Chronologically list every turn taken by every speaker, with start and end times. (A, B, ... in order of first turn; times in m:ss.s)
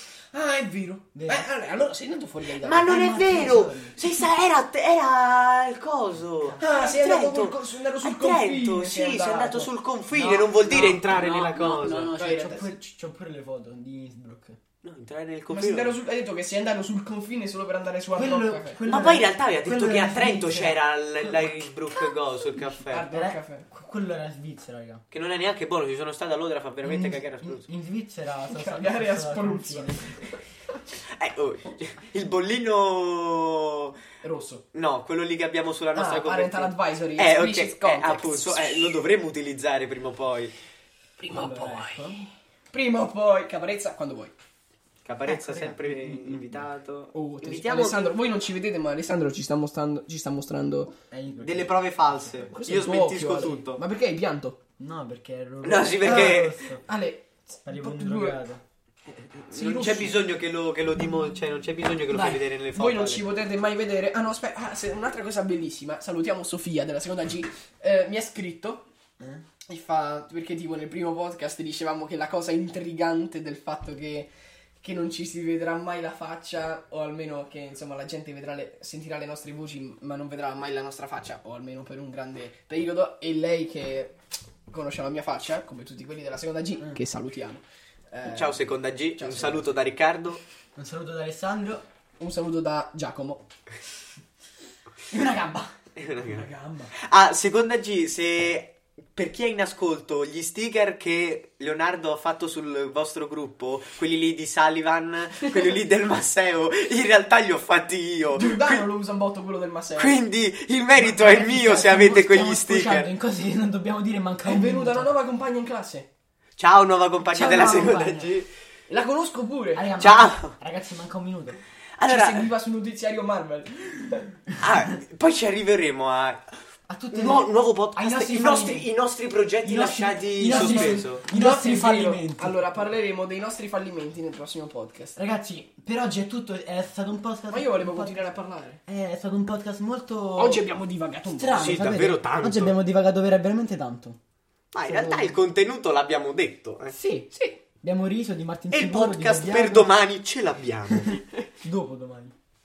0:00.3-0:02.9 A
0:01.1-0:01.5 B
0:02.6-0:12.1 C
0:02.8-0:04.0 B
0:06.6-0:09.7 A
0:10.1-0:14.6 B
0:12.1-0:12.7 A
0:14.8-0:16.0 C
0:15.5-0:18.8 A
0:18.1-0:21.6 B
0:18.8-0:23.0 C
0:22.9-0:23.7 A
0:23.0-0:25.0 B
0:25.1-0:27.6 C
0:26.8-0:30.3 B
0:28.5-0:30.0 A
0:31.2-0:33.9 C
0:34.2-0:34.6 A
0:34.7-0:40.5 C
0:35.9-0:38.9 A
0:41.2-0:44.3 A
0:41.3-0:42.2 B
0:45.0-0:48.1 C
0:45.2-0:46.7 B
0:47.1-0:50.9 A
0:51.1-0:52.4 B
0:51.4-0:53.8 C
0:52.5-0:54.6 A
0:53.4-0:53.7 B
0:54.8-0:56.8 B
0:55.6-0:56.5 C
0:56.0-0:58.4 A
0:57.6-0:58.6 B
0:59.5-1:00.2 A
0:59.5-1:03.2 C
1:02.1-1:08.8 A
1:09.7-1:24.2 A
1:24.7-1:29.6 A
1:28.2-1:30.4 C
1:30.7-1:31.8 B
1:32.2-1:33.4 A
1:35.1-1:35.7 B
1:36.0-1:48.8 C
1:36.2-1:36.9 A
1:48.3-1:50.2 A
1:50.0-1:53.1 C
1:51.0-1:55.1 B
1:54.4-1:56.1 A
1:56.6-1:58.5 C
1:57.3-1:58.3 B
1:58.9-1:59.9 A
1:59.7-2:01.6 B
2:00.0-2:00.5 C
2:02.0-2:02.5 C
2:02.0-2:04.2 A
2:04.6-2:06.4 C
2:06.9-2:08.9 B
2:07.1-2:11.2 C
2:09.6-2:12.7 B
2:10.4-2:15.2 A
2:15.1-2:18.3 B
2:17.5-2:18.8 A
2:18.8-2:20.6 B
2:20.4-2:21.7 A
2:21.2-2:24.2 B
2:21.5-2:22.8 C
2:24.7-2:26.9 C
2:24.8-2:25.4 B
2:26.9-2:27.3 B
2:27.3-2:27.6 A
2:27.8-2:29.9 B
2:28.7-2:31.1 C
2:30.9-2:32.3 B